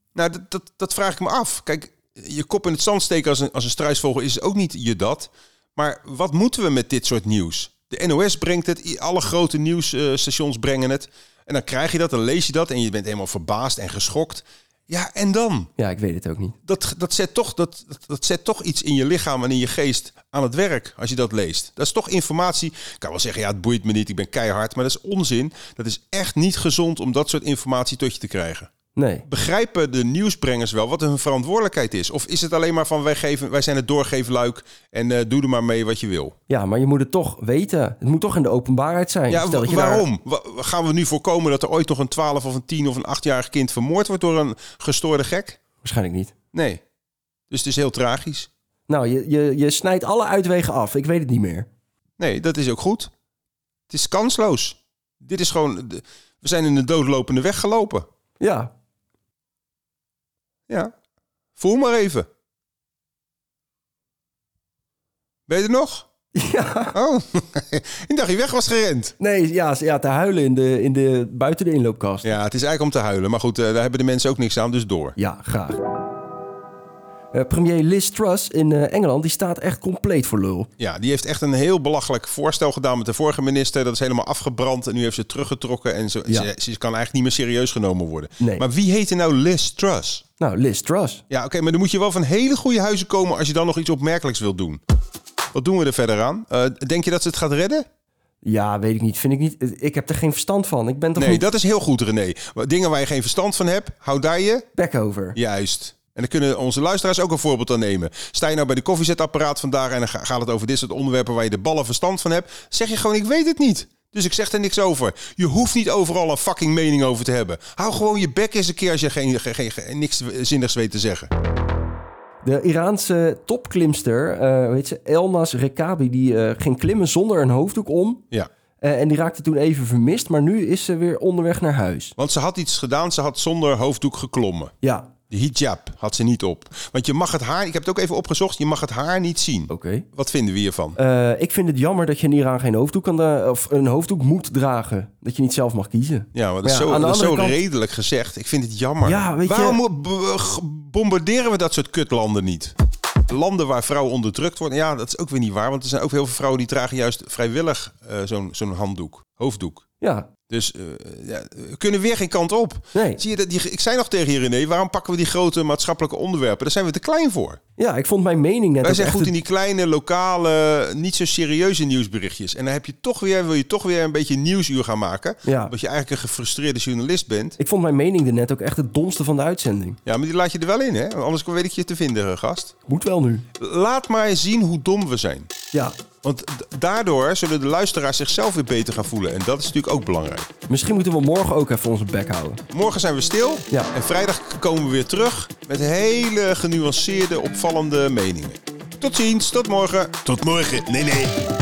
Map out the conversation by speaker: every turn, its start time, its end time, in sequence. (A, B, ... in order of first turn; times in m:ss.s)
0:00.2-0:15.7 A
0:15.8-0:16.6 B
0:16.7-0:28.7 A
0:29.0-0:29.2 B
0:29.3-0:36.3 A
0:36.5-0:40.1 B
0:39.3-0:45.6 A
0:45.8-0:46.3 B
0:46.5-0:46.8 A
0:47.5-0:48.5 A
0:48.9-0:51.7 B
0:52.2-0:53.1 A
0:53.9-0:58.0 A
0:58.4-0:58.7 B
1:01.6-1:02.3 A
1:05.5-1:06.1 A
1:06.4-1:07.0 B
1:06.9-1:09.1 A
1:09.2-1:12.3 B
1:12.2-1:15.2 A
1:15.2-1:15.8 B
1:17.3-1:20.7 B
1:20.8-1:30.2 A
1:28.4-1:28.7 B
1:30.4-1:31.2 B
1:31.3-1:34.8 A
1:35.5-1:37.8 A
1:38.4-1:41.4 B
1:41.2-1:44.7 A
1:44.8-1:45.4 B
1:45.4-2:01.3 A
2:02.4-2:08.2 B
2:08.8-2:12.1 B
2:12.2-2:14.7 A
2:14.8-2:15.1 B
2:15.3-2:21.0 A
2:19.7-2:20.1 B
2:21.0-2:27.6 B
2:26.3-2:32.7 A
2:29.0-2:29.8 B
2:33.3-2:39.8 A
2:40.0-2:40.3 B
2:40.5-2:47.6 A
2:42.9-2:43.2 B
2:47.8-2:49.3 B
2:48.8-2:57.6 A
2:55.4-2:55.7 B
2:57.6-3:00.0 B
3:00.1-3:02.7 A
3:02.9-3:03.4 B
3:03.6-3:05.5 A
3:06.2-3:10.5 A
3:10.7-3:12.6 B
3:12.7-3:21.4 A